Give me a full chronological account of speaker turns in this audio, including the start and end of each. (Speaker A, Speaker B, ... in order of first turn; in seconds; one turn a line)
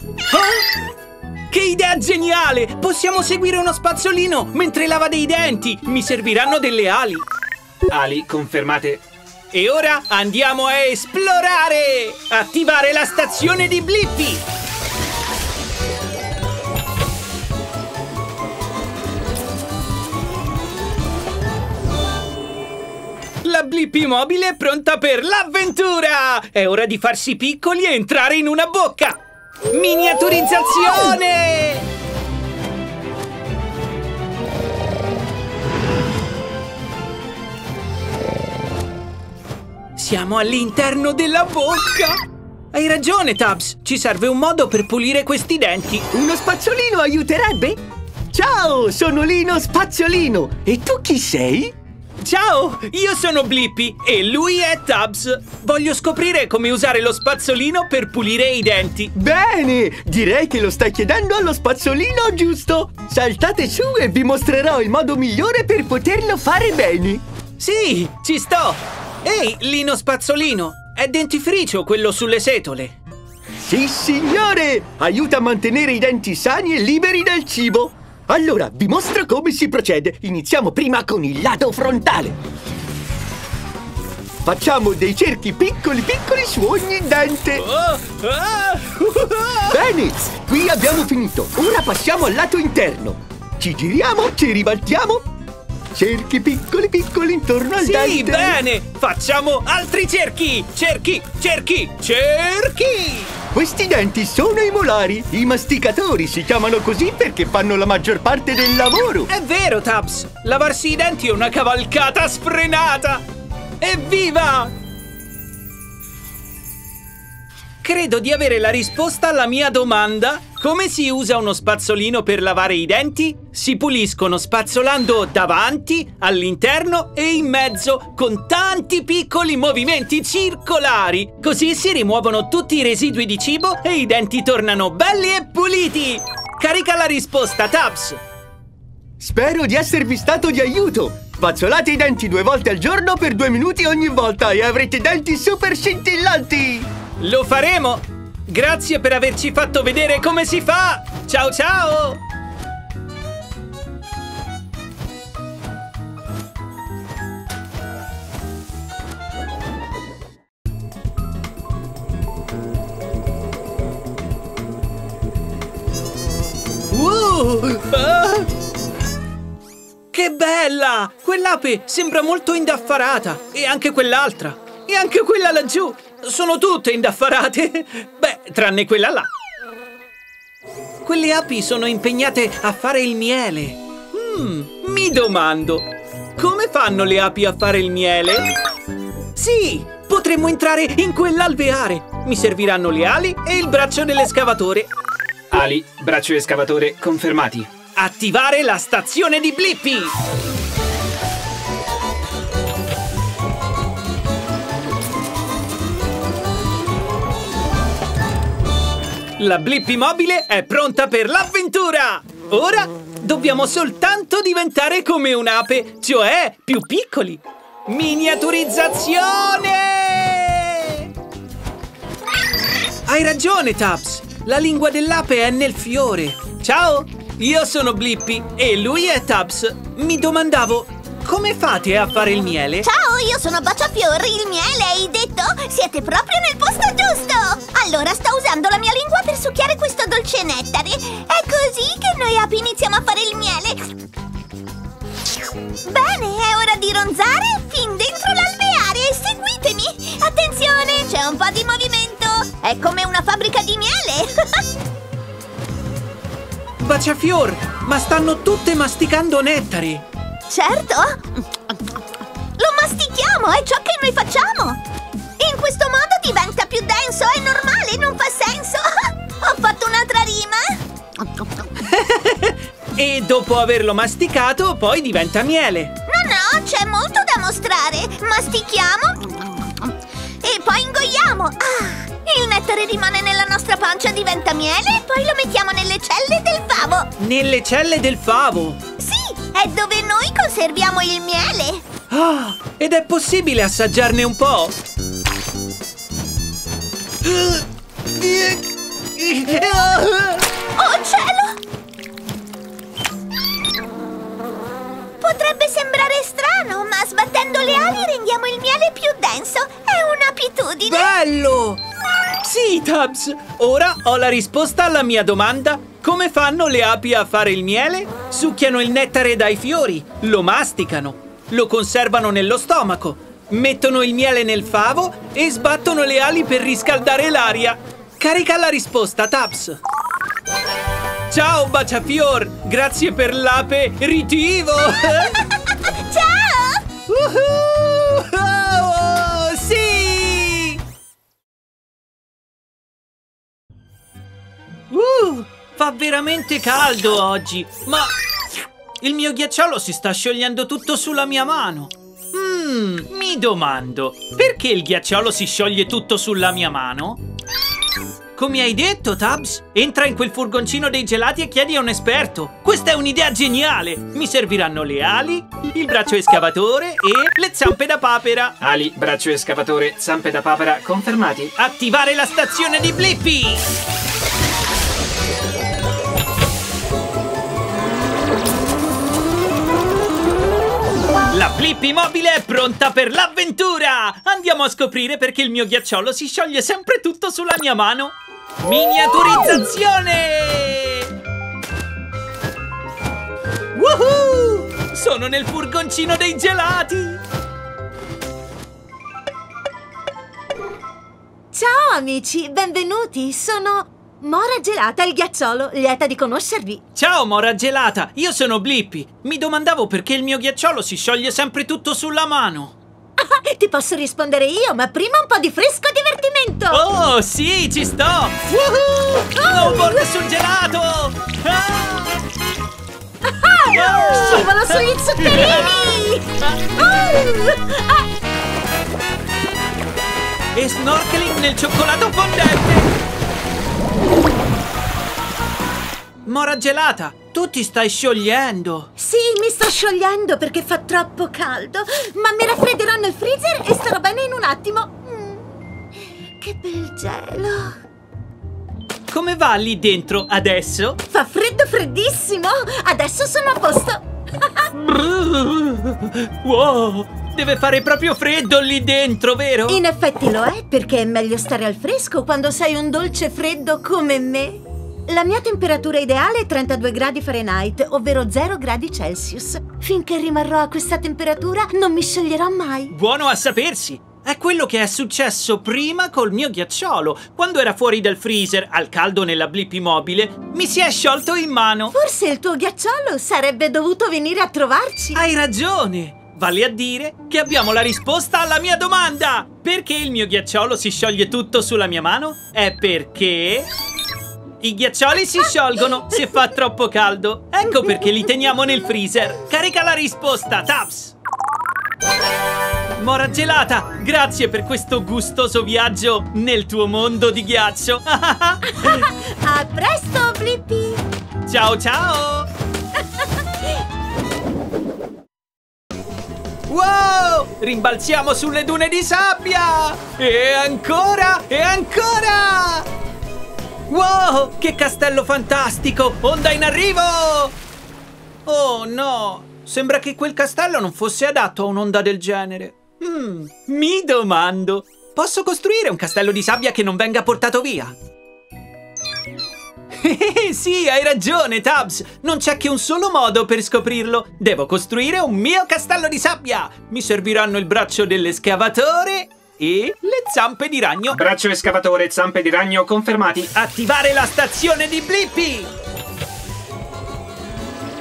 Speaker A: 0.3-0.7
Speaker A: 1.5-7.2
Speaker B: 7.9-9.0
Speaker A: 9.5-14.4
Speaker A: 23.4-31.9
Speaker A: 40.0-42.2
Speaker A: 42.7-46.1
Speaker C: 46.1-51.7
Speaker A: 52.2-59.1
Speaker C: 59.2-67.2
Speaker A: 67.6-73.0
Speaker C: 73.6-82.4
Speaker C: 84.5-87.6
Speaker A: 87.5-89.8
Speaker C: 89.7-95.2
Speaker C: 95.9-98.6
Speaker A: 97.8-103.3
Speaker C: 103.5-109.3
Speaker A: 109.3-113.2
Speaker A: 113.8-114.7
Speaker A: 117.8-138.2
Speaker C: 139.2-146.9
Speaker A: 147.2-152.2
Speaker A: 166.9-168.5
Speaker A: 170.1-179.3
Speaker A: 181.0-188.5
Speaker A: 189.4-194.9
Speaker B: 195.5-197.7
Speaker A: 198.0-200.1
Speaker A: 209.4-221.1
Speaker A: 223.1-232.9
Speaker D: 232.9-243.9
Speaker D: 245.9-254.2
Speaker A: 256.8-260.1
Speaker D: 260.5-261.2
Speaker D: 262.6-264.8
Speaker D: 265.4-268.8
Speaker D: 269.5-270.6
Speaker A: 271.9-275.9
Speaker D: 276.2-279.2
Speaker D: 280.5-287.0
Speaker A: 287.2-288.8
Speaker D: 289.4-291.7
Speaker A: 292.1-294.8
Speaker A: 297.2-297.6
Speaker A: 298.2-298.6
Speaker A: 299.2-300.5
Speaker D: 301.0-301.4
Speaker D: 305.3-311.0
Speaker A: 310.9-311.8
Speaker A: 312.4-329.8
Speaker A: 331.3-335.4
Speaker A: 337.1-340.8
Speaker A: 344.9-348.1
Speaker A: 349.0-357.2
Speaker A: 358.4-368.6
Speaker B: 368.6-371.6
Speaker A: 371.6-373.7
Speaker A: 381.3-391.1
Speaker A: 393.8-397.2
Speaker E: 401.5-406.8
Speaker A: 406.9-412.8
Speaker E: 413.2-416.8
Speaker A: 416.7-422.2
Speaker E: 418.5-420.1
Speaker E: 423.2-428.1
Speaker A: 423.7-427.1
Speaker A: 430.5-432.9
Speaker A: 436.2-438.9
Speaker E: 439.0-445.4
Speaker E: 446.4-447.7
Speaker A: 449.1-451.0
Speaker E: 451.1-454.7
Speaker A: 454.8-459.8
Speaker E: 459.7-472.9
Speaker A: 472.9-482.0
Speaker E: 481.9-485.2
Speaker A: 485.1-493.7
Speaker A: 494.6-501.2
Speaker A: 503.0-509.1
Speaker E: 508.7-511.0
Speaker A: 511.5-512.5
Speaker E: 513.0-513.4
Speaker A: 516.7-522.9
Speaker A: 523.9-527.6
Speaker A: 528.5-538.0
Speaker A: 540.0-551.2
Speaker B: 551.1-553.5
Speaker A: 553.5-555.7